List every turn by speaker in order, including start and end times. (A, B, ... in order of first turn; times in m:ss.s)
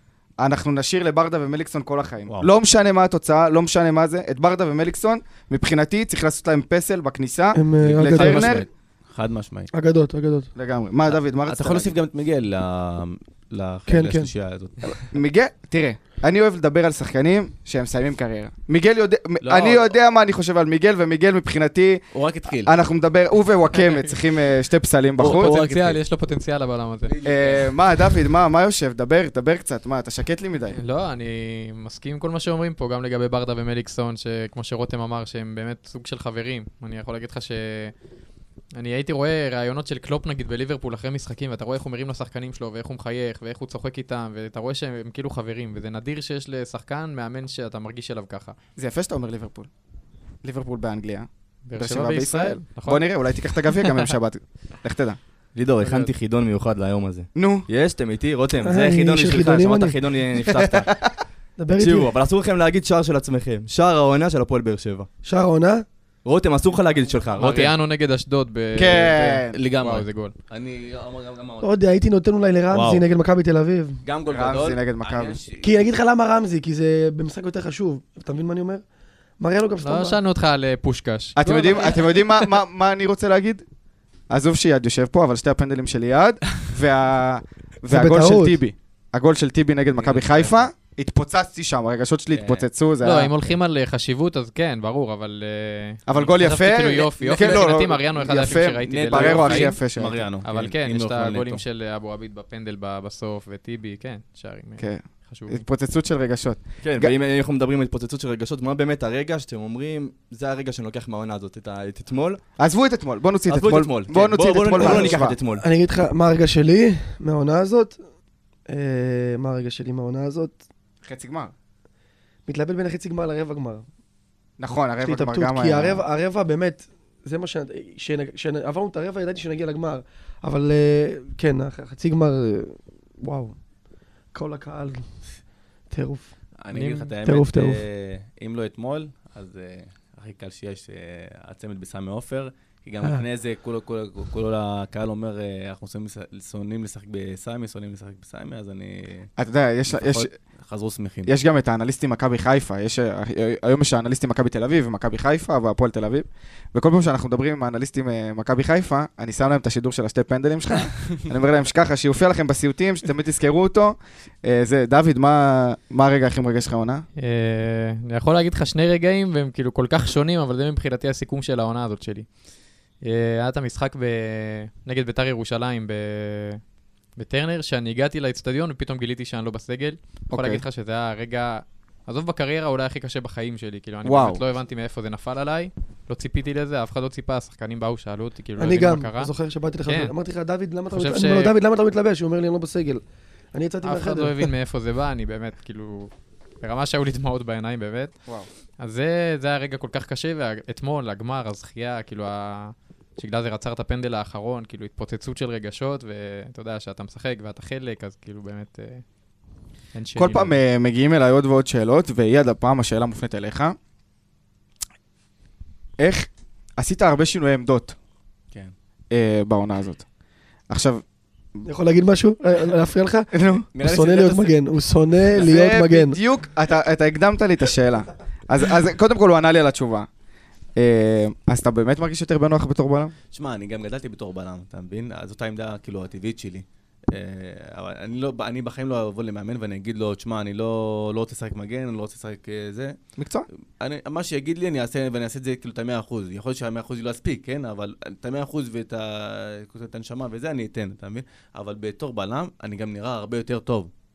0:00.4-0:08.7 A
0:07.6-0:08.6 B
0:07.8-0:09.7 C
0:09.7-0:10.5 B
0:10.6-0:11.9 A
0:11.1-0:15.1 C
0:13.9-0:14.3 B
0:15.0-0:25.5 A
0:19.4-0:19.9 C
0:22.1-0:22.8 C
0:25.2-0:26.0 C
0:25.2-0:27.1 D
0:27.1-0:27.7 C
0:27.2-0:30.8 A
0:30.8-0:37.9 D
0:38.8-0:48.6 D
0:48.8-0:49.7 A
0:50.4-0:55.2 A
0:51.7-0:54.1 D
0:55.6-1:00.9 E
0:55.8-0:56.1 D
0:57.4-0:57.7 A
0:58.6-1:00.0 B
1:00.5-1:01.1 A
1:01.6-1:02.1 B
1:01.8-1:05.1 E
1:05.2-1:05.8 B
1:06.2-1:07.7 E
1:07.4-1:10.3 D
1:07.4-1:07.7 C
1:08.8-1:09.6 A
1:09.5-1:11.7 C
1:11.6-1:14.0 B
1:12.7-1:13.0 C
1:14.0-1:15.8 C
1:14.3-1:15.4 A
1:15.6-1:18.8 B
1:19.4-1:20.2 B
1:19.8-1:22.3 D
1:21.4-1:23.6 A
1:24.3-1:33.4 A
1:27.9-1:28.6 B
1:30.0-1:30.7 C
1:32.3-1:32.7 C
1:33.0-1:45.6 D
1:36.1-1:40.2 A
1:37.3-1:37.7 C
1:38.9-1:41.6 C
1:44.8-1:47.1 A
1:46.8-1:52.4 E
1:52.6-1:55.4 A
1:53.5-1:55.6 E
1:54.8-1:58.0 B
1:58.7-2:00.6 B
2:01.0-2:01.5 A
2:02.5-2:03.9 B
2:04.6-2:06.0 A
2:05.0-2:13.6 B
2:14.3-2:15.0 B
2:15.9-2:16.3 B
2:16.6-2:29.3 C
2:16.7-2:17.1 D
2:17.2-2:17.8 B
2:29.4-2:30.3 A
2:29.9-2:31.3 C
2:31.3-2:47.0 A
2:47.2-2:52.3 D
2:53.0-2:56.6 D
2:57.2-3:09.3 D
3:00.3-3:00.6 A
3:04.0-3:04.4 A
3:08.6-3:13.0 B
3:09.9-3:10.1 D
3:10.9-3:11.5 D
3:13.5-3:14.5 B
3:13.8-3:16.1 D
3:16.6-3:18.1 D
3:18.8-3:29.0 D
3:30.0-3:30.5 D
3:30.2-3:33.8 A
3:36.0-3:38.0 A
3:39.1-3:40.1 A
3:40.7-3:41.0 A
3:41.6-3:46.2 B
3:43.3-3:43.7 A
3:43.7-3:44.6 C
3:45.4-3:50.1 A
3:50.8-3:53.1 A
3:53.3-4:03.0 C
4:03.2-4:03.5 A
4:03.8-4:13.9 C